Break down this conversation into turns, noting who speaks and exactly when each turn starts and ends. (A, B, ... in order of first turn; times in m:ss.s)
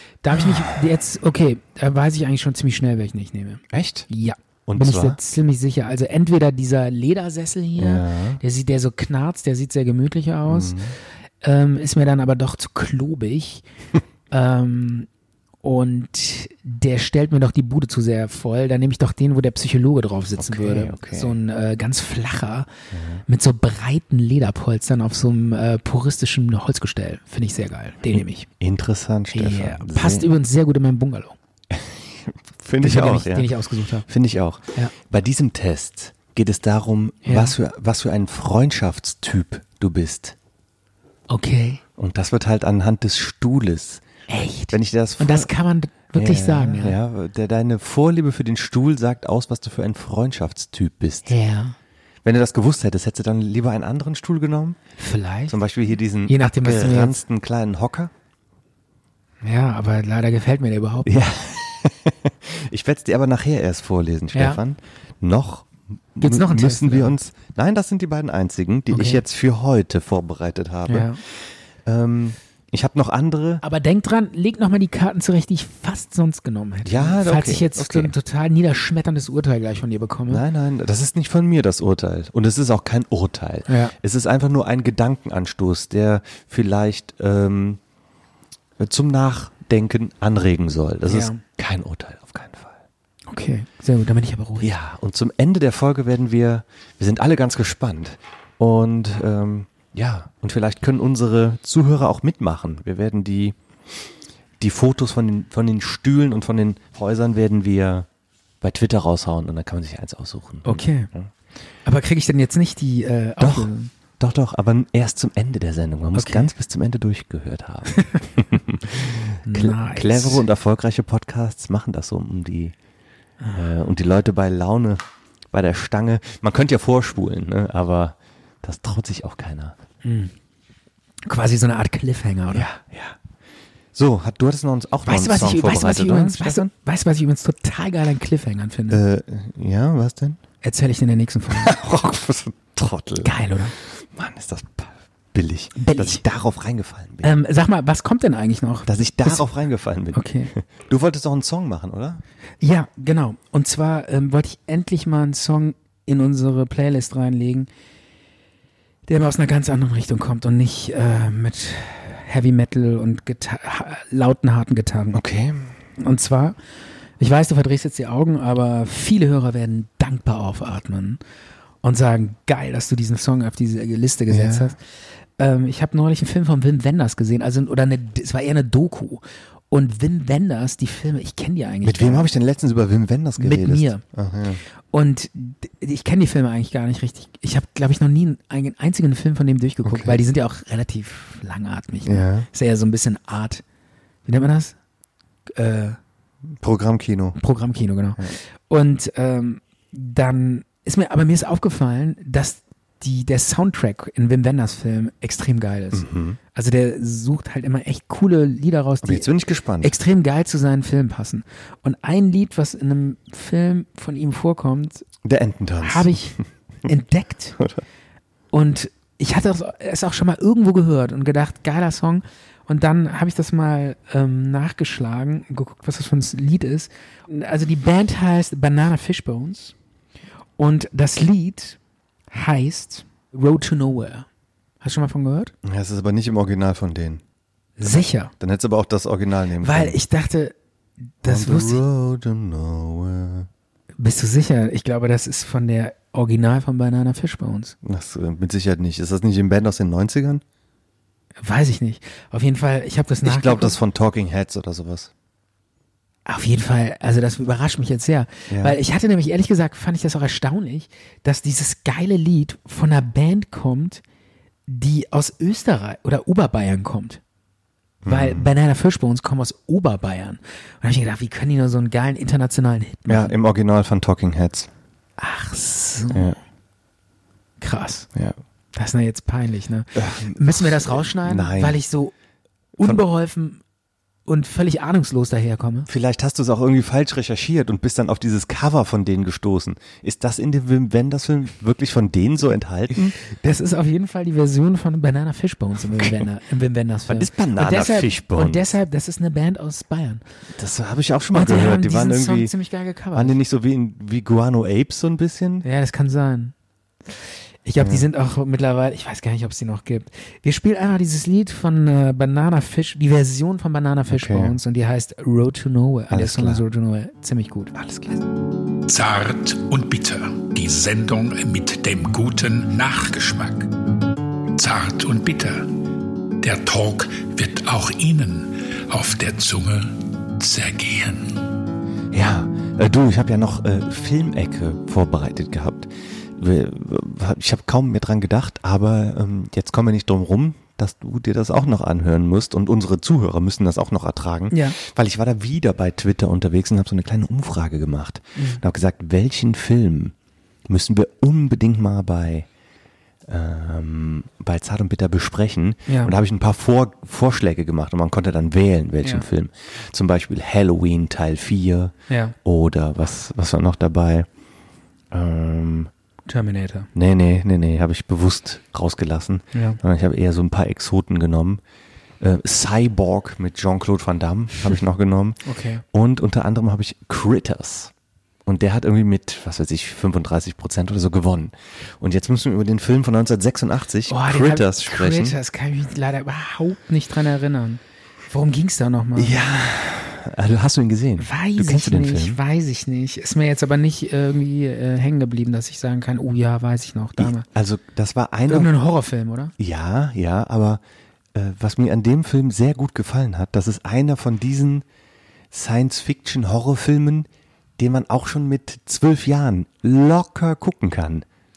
0:00.2-0:10.8 A
0:00.3-0:00.8 B
0:03.7-0:04.1 B
0:04.6-0:05.2 B
0:07.8-0:08.4 B
0:10.4-0:10.9 B
0:11.4-0:13.6 A
0:14.3-0:15.1 A
0:15.6-0:22.7 A
0:20.4-0:21.4 B
0:22.9-0:23.2 B
0:23.3-0:28.5 A
0:28.1-0:30.3 B
0:29.3-0:31.4 A
0:31.7-0:33.5 B
0:32.8-0:34.1 A
0:34.0-0:40.4 B
0:37.2-0:37.6 A
0:41.3-0:41.8 A
0:42.0-0:44.0 B
0:44.3-0:47.0 A
0:44.7-0:45.5 B
0:46.1-0:51.3 B
0:51.2-0:51.8 A
0:52.2-0:54.8 B
0:55.0-0:55.6 A
0:55.5-0:58.1 B
0:56.2-0:57.2 A
0:59.4-1:01.3 A
1:01.0-1:11.2 B
1:04.3-1:04.6 A
1:06.2-1:07.2 A
1:08.9-1:09.2 A
1:10.9-1:11.2 A
1:11.8-1:13.6 B
1:13.6-1:20.4 A
1:16.8-1:18.1 B
1:20.3-1:27.8 B
1:23.7-1:23.9 A
1:28.8-1:32.8 B
1:31.0-1:31.4 A
1:33.3-1:34.7 A
1:34.6-1:44.0 B
1:44.6-1:48.1 B
1:48.6-1:51.3 B
1:50.6-1:51.1 A
1:51.8-1:53.9 A
1:53.4-2:02.7 B
1:56.2-1:56.5 A
1:59.4-2:00.4 A
2:03.4-2:03.7 A
2:03.5-2:09.8 B
2:10.0-2:10.3 A
2:11.2-2:12.7 A
2:12.5-2:13.2 B
2:13.9-2:16.6 B
2:15.0-2:19.0 A
2:18.9-2:20.4 B
2:20.6-2:21.7 A
2:21.5-2:27.3 B
2:23.2-2:23.7 A
2:25.8-2:26.2 A
2:27.2-2:29.4 A
2:28.8-2:32.2 B
2:30.1-2:30.5 A
2:32.6-2:37.7 A
2:39.1-2:45.2 A
2:45.1-2:45.7 B
2:46.0-2:46.6 A
2:47.2-2:51.2 A
2:51.8-2:54.8 A
2:54.3-2:54.7 B
2:55.4-3:02.3 A
3:01.8-3:04.6 B
3:03.4-3:04.0 A
3:04.9-3:13.6 A
3:09.8-3:10.2 B
3:12.0-3:12.5 B
3:14.2-3:14.7 A
3:15.5-3:16.0 A
3:16.6-3:17.4 B
3:17.4-3:35.0 A
3:25.9-3:26.4 B
3:29.0-3:30.0 B
3:35.2-3:36.4 B
3:35.8-3:37.6 A
3:38.5-3:49.7 A
3:50.6-3:51.8 A
3:52.3-3:54.3 A
3:54.8-3:55.5 A
3:55.6-3:57.2 B
3:57.8-3:58.3 A
3:57.8-4:00.0 B
3:59.6-4:00.5 A
4:01.2-4:01.8 A
4:01.2-4:03.5 B
4:04.0-4:07.7 A
4:07.8-4:10.4 B
4:11.4-4:13.7 A
4:13.2-4:15.1 B
4:16.2-4:24.0 A
4:18.5-4:18.8 B
4:24.7-4:27.2 A
4:28.0-4:28.5 B
4:28.0-4:33.3 A
4:33.1-4:34.7 B
4:35.2-4:36.3 A
4:36.1-4:36.4 B
4:37.6-4:38.1 A
4:38.7-4:42.1 A
4:39.9-4:41.8 B
4:42.8-4:43.6 A
4:44.3-4:45.9 A
4:45.9-4:53.2 B
4:53.2-5:00.2 A
4:56.0-4:56.2 B
4:57.1-4:58.7 B
5:00.5-5:02.5 B
5:01.3-5:03.4 A
5:03.1-5:05.6 B
5:05.6-5:06.5 A
5:07.6-5:17.7 A
5:07.8-5:08.1 B
5:14.1-5:14.6 B
5:16.1-5:16.6 B
5:17.7-5:18.2 B
5:18.8-5:23.7 C
5:24.5-5:25.7 C
5:26.4-5:31.5 C
5:32.1-5:50.1 B
5:44.5-5:44.8 A
5:48.4-5:48.6 A
5:50.7-5:52.5 B
5:53.3-6:01.9 B
5:55.9-5:56.1 A
6:02.1-6:02.3 A
6:02.4-6:04.3 B
6:05.1-6:05.9 B
6:06.3-6:06.9 A
6:06.9-6:11.6 B
6:09.5-6:09.8 A
6:12.2-6:15.4 B
6:15.4-6:15.8 A
6:15.9-6:17.9 B
6:18.4-6:25.4 B
6:24.1-6:29.4 A
6:29.2-6:32.4 B
6:31.2-6:37.4 A
6:37.2-6:38.7 B
6:38.5-6:39.5 A
6:39.6-6:40.8 B
6:41.3-6:44.8 B
6:45.5-6:51.2 B